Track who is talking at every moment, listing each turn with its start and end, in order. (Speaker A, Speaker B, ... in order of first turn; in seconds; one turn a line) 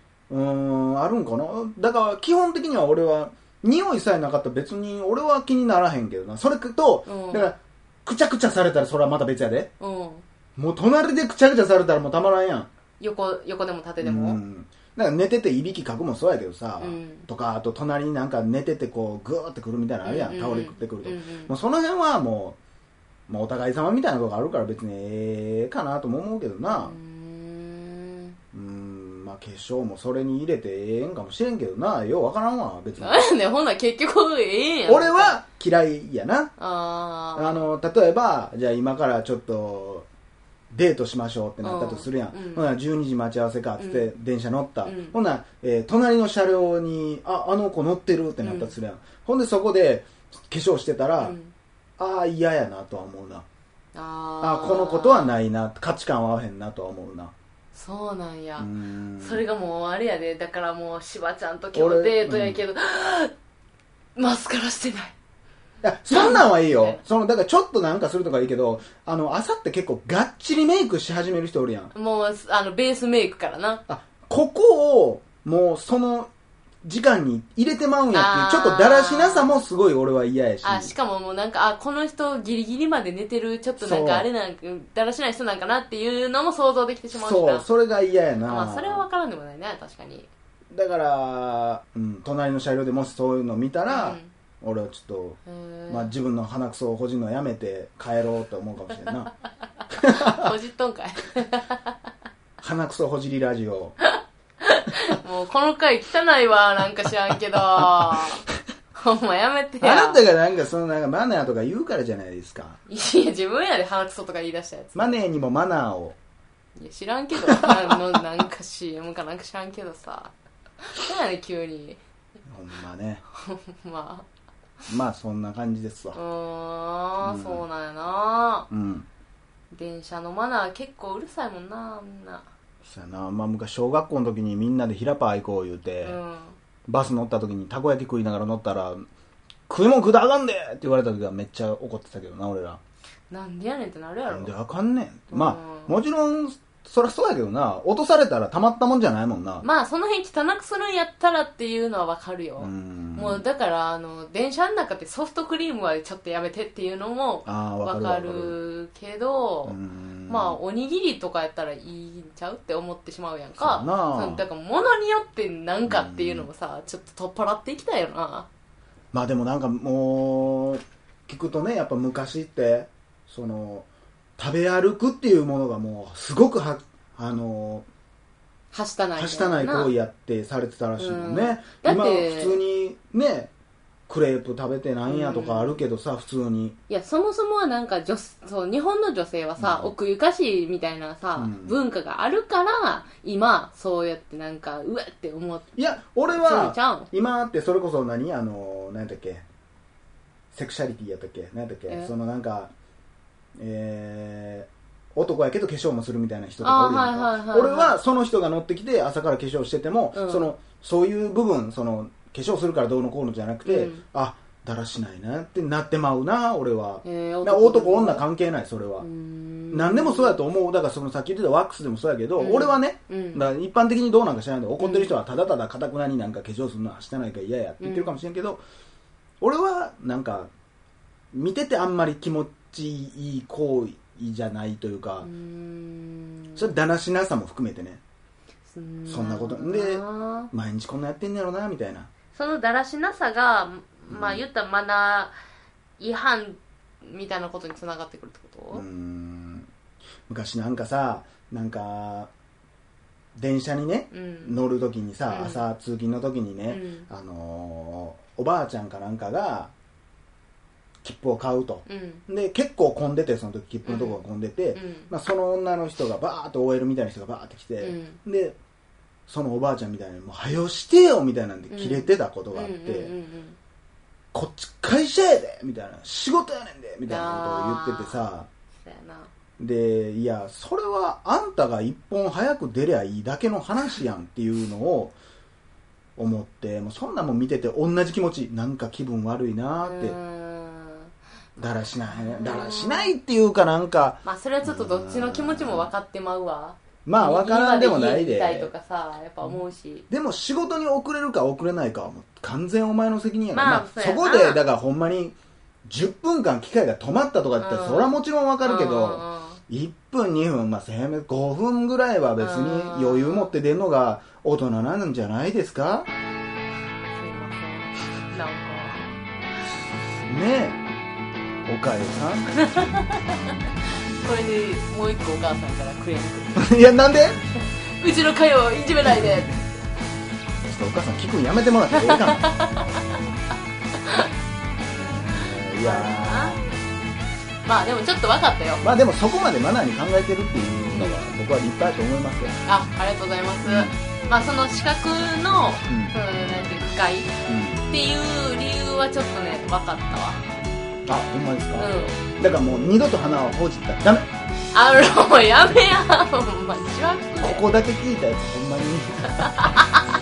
Speaker A: 0.3-9.7
Speaker B: 7.1-7.5
Speaker B: 9.8-10.2
Speaker A: 10.6-12.7
Speaker B: 13.0-14.4
Speaker A: 14.0-22.6
Speaker B: 16.8-17.2
Speaker B: 20.0-21.5
Speaker A: 23.3-26.9
Speaker B: 26.7-28.4
Speaker A: 28.5-33.2
Speaker B: 33.0-35.4
Speaker A: 34.9-36.5
Speaker B: 36.6-37.6
Speaker A: 37.4-40.1
Speaker A: 40.7-51.4
Speaker B: 41.6-42.7
Speaker B: 43.8-44.1
Speaker B: 44.9-45.1
Speaker B: 48.4-48.7
Speaker B: 51.2-51.5
Speaker A: 52.0-53.4
Speaker B: 53.9-55.3
Speaker A: 54.4-57.3
Speaker B: 57.7-63.3
Speaker A: 58.6-59.4
Speaker A: 61.7-62.6
Speaker B: 64.2-65.1
Speaker A: 65.8-71.9
Speaker B: 66.1-67.0
Speaker B: 71.9-73.8
Speaker A: 73.9-76.3
Speaker A: 76.8-80.9
Speaker B: 78.1-79.6
Speaker B: 80.6-87.7
Speaker A: 83.8-84.3
Speaker A: 87.1-89.0
Speaker B: 88.5-90.3
Speaker A: 90.7-99.3
Speaker B: 93.9-94.3
Speaker B: 95.5-96.1
Speaker A: 99.9-100.5
Speaker B: 100.0-101.9
Speaker A: 102.6-103.9
Speaker B: 104.0-108.4
Speaker B: 108.9-110.2
Speaker A: 109.8-112.8
Speaker B: 112.9-115.2
Speaker A: 114.9-116.2
Speaker B: 116.8-122.0
Speaker A: 117.6-117.9
Speaker A: 122.5-123.2
Speaker B: 123.3-124.2
Speaker A: 124.9-126.2
Speaker B: 126.1-128.7
Speaker A: 127.2-127.6
Speaker A: 128.7-129.1
Speaker B: 129.7-132.4
Speaker A: 132.8-136.2
Speaker B: 136.0-136.6
Speaker A: 136.9-139.0
Speaker A: 139.7-142.8
Speaker B: 143.3-144.5
Speaker A: 144.3-149.6
Speaker B: 145.3-145.9
Speaker B: 149.6-159.8
Speaker A: 152.6-153.4
Speaker A: 157.4-158.5
Speaker A: 159.7-160.6
Speaker B: 160.3-168.5
Speaker A: 163.6-164.4
Speaker A: 165.9-166.5
Speaker A: 169.1-173.9
Speaker A: 174.4-177.8
Speaker B: 178.7-179.9
Speaker A: 179.2-183.5
Speaker B: 181.0-182.6
Speaker A: 184.1-186.8
Speaker B: 185.1-185.8
Speaker B: 186.9-195.8
Speaker A: 189.6-189.9
Speaker A: 191.4-191.8
Speaker A: 195.8-199.4
Speaker B: 196.3-197.1
Speaker A: 200.5-202.7
Speaker A: 203.6-219.1
Speaker B: 206.6-208.0
Speaker B: 210.1-210.5
Speaker B: 213.6-214.0
Speaker B: 217.0-218.2
Speaker B: 219.0-220.4
Speaker A: 219.7-228.6
Speaker B: 222.4-223.4
Speaker B: 224.8-225.2
Speaker B: 227.8-228.1
Speaker A: 229.4-230.5
Speaker A: 231.3-235.3
Speaker B: 235.2-236.7
Speaker A: 236.6-238.0
Speaker B: 238.7-240.5
Speaker A: 239.1-242.1
Speaker B: 242.3-245.3
Speaker A: 244.1-244.4
Speaker B: 246.0-248.8
Speaker A: 248.7-249.7
Speaker A: 250.3-252.3
Speaker A: 253.3-259.7
Speaker B: 254.1-254.6
Speaker B: 255.3-255.6
Speaker B: 256.7-257.1
Speaker A: 261.0-268.6
Speaker B: 261.9-262.2
Speaker B: 263.8-264.2
Speaker B: 264.7-265.1
Speaker B: 267.8-268.2
Speaker A: 269.3-273.1
Speaker B: 271.7-273.6
Speaker A: 274.3-278.5
Speaker B: 277.1-278.2
Speaker B: 278.8-279.3
Speaker A: 279.6-285.1
Speaker A: 286.2-290.2
Speaker B: 289.8-291.1
Speaker A: 291.6-295.9
Speaker B: 292.1-293.1
Speaker B: 294.2-300.1
Speaker A: 297.1-298.7
Speaker A: 300.1-316.1
Speaker B: 303.5-304.6
Speaker B: 307.6-309.6
Speaker B: 312.4-313.5
Speaker B: 317.1-319.2
Speaker A: 320.3-320.8
Speaker A: 321.6-322.6
Speaker B: 322.6-326.7
Speaker A: 326.6-327.4
Speaker B: 328.0-329.6
Speaker A: 329.0-329.6
Speaker A: 330.6-332.5
Speaker B: 331.9-333.0
Speaker A: 334.9-336.6
Speaker B: 335.8-336.6
Speaker B: 337.6-338.8
Speaker A: 338.8-342.6
Speaker B: 340.9-341.2
Speaker B: 342.6-347.3
Speaker A: 343.6-343.9
Speaker A: 345.9-346.2
Speaker A: 347.5-347.9
Speaker B: 347.9-350.4
Speaker A: 351.1-354.3
Speaker B: 351.8-352.2
Speaker B: 354.7-357.7
Speaker A: 357.4-359.7
Speaker B: 359.5-360.0